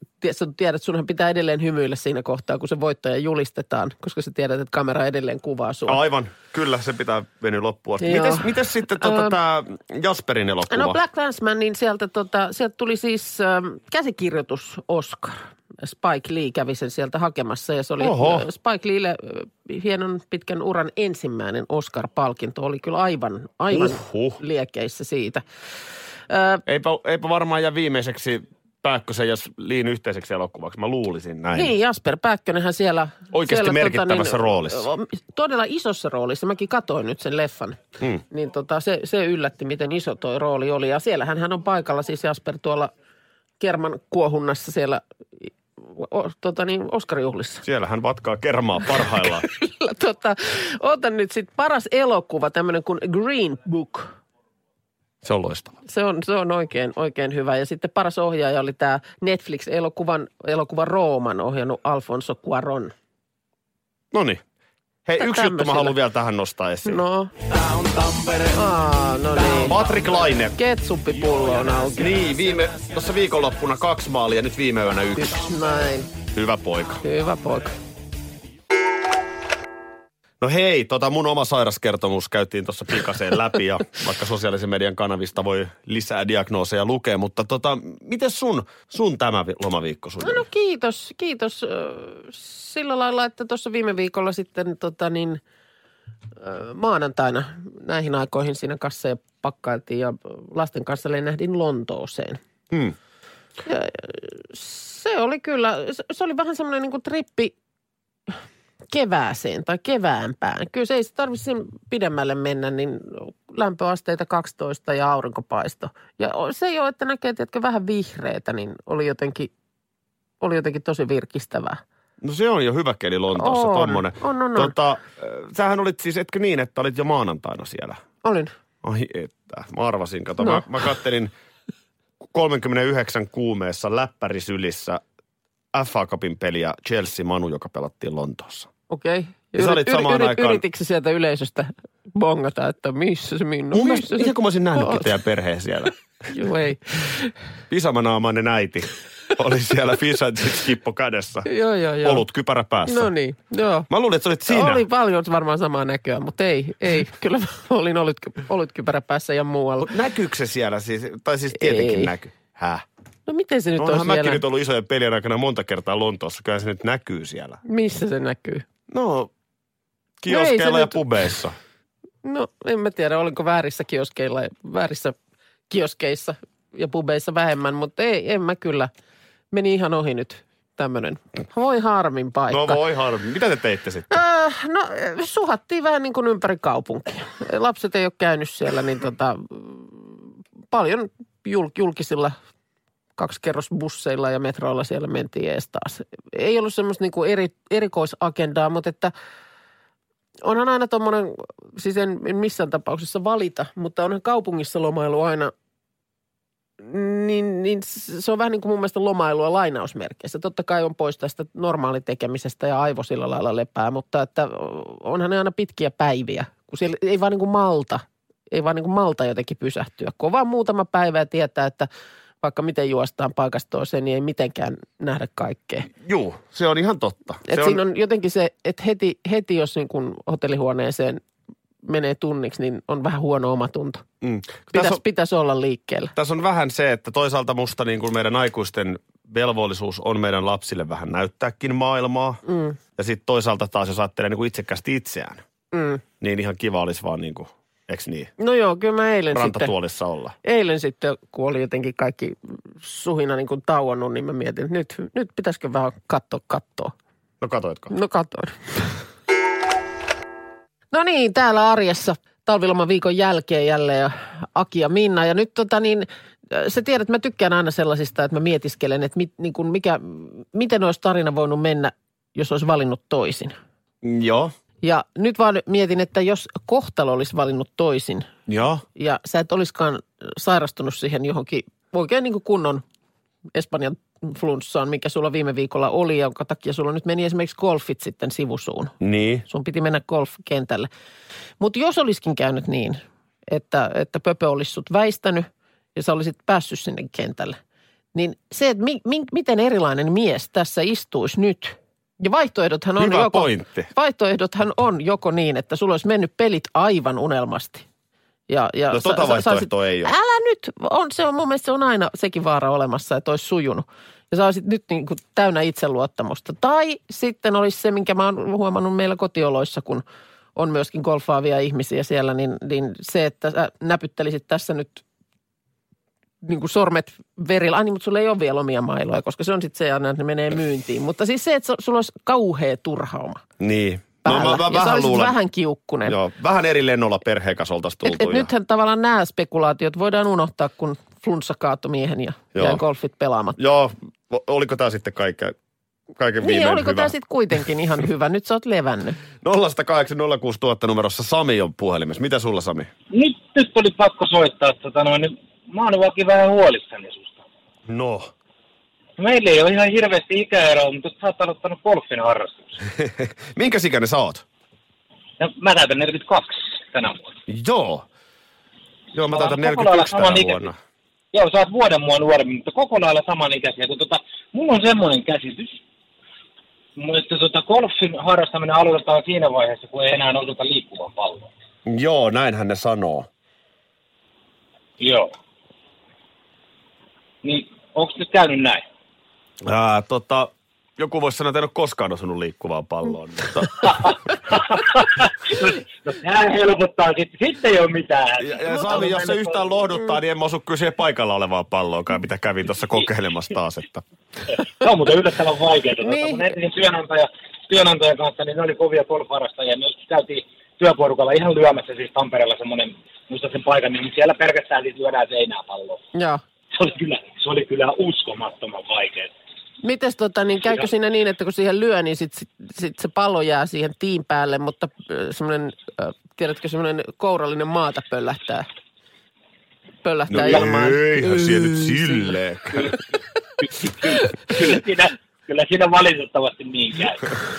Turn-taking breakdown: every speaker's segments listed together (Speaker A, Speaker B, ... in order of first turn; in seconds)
Speaker A: 0.2-6.0, 8.0-9.3, 10.7-25.4, 26.3-26.6, 31.5-42.9, 43.6-47.6, 49.2-54.1, 55.9-62.9, 65.2-66.0, 66.8-67.3, 68.5-69.8, 70.5-72.1, 75.1-76.1, 77.0-77.7, 90.2-95.4, 96.4-102.4, 103.6-107.5, 108.9-119.5, 120.4-121.8, 123.3-124.7, 128.2-128.5, 138.9-145.1, 146.3-147.3, 151.4-152.2, 152.8-153.9, 154.5-159.9, 161.6-162.1, 163.3-164.4, 167.6-168.7, 170.3-171.1, 172.2-175.1, 175.7-178.9, 179.5-182.8, 184.1-192.3, 193.2-199.1, 200.4-205.5, 206.8-221.9, 222.4-225.9, 227.5-231.2, 231.8-234.0, 234.7-236.1, 242.4-242.8, 245.7-246.0, 248.4-249.7, 250.4-256.9, 257.9-258.9, 260.9-273.5, 274.8-278.3, 278.9-282.8, 283.5-290.9, 291.6-297.6, 298.1-307.8, 308.5-320.0, 320.5-325.0, 326.4-333.4, 334.2-336.2, 338.0-343.6, 346.4-349.2, 398.6-399.2, 406.0-406.5, 416.1-416.4, 419.8-428.6, 430.0-432.2
Speaker B: 5.9-11.0, 18.0-18.5, 23.7-24.4, 26.7-31.7, 33.3-34.9, 47.6-49.5, 55.2-55.7, 64.1-64.4, 65.0-67.0, 69.6-70.6, 72.0-75.5, 76.3-77.0, 80.4-90.4, 122.2-128.0, 128.8-131.3, 132.3-135.0, 135.7-138.7, 139.6-140.6, 143.7-145.9, 147.7-151.5, 152.0-153.1, 153.9-154.8, 159.8-162.8, 163.8-167.6, 168.9-169.3, 170.2-171.5, 182.5-184.1, 226.0-227.8, 234.2-235.0, 236.2-242.4, 243.0-245.4, 246.2-248.3, 249.3-250.3, 257.4-257.9, 274.0-274.5, 278.5-278.8, 289.0-289.4, 303.0-303.9, 308.9-310.1, 333.6-335.4, 336.1-338.5, 342.5-342.8, 343.6-345.5, 346.2-347.1, 349.4-352.9, 357.9-358.3, 362.8-364.4, 367.5-368.1, 369.1-370.8, 381.9-383.3, 389.6-393.9, 398.4-404.0, 430.3-433.0
Speaker C: 353.1-357.4, 359.2-362.8, 365.4-367.3, 369.3-370.7, 371.3-375.8, 377.0-381.5, 385.0-385.3, 387.4-388.8, 393.8-399.7, 404.5-416.0, 416.7-419.3, 433.7-437.4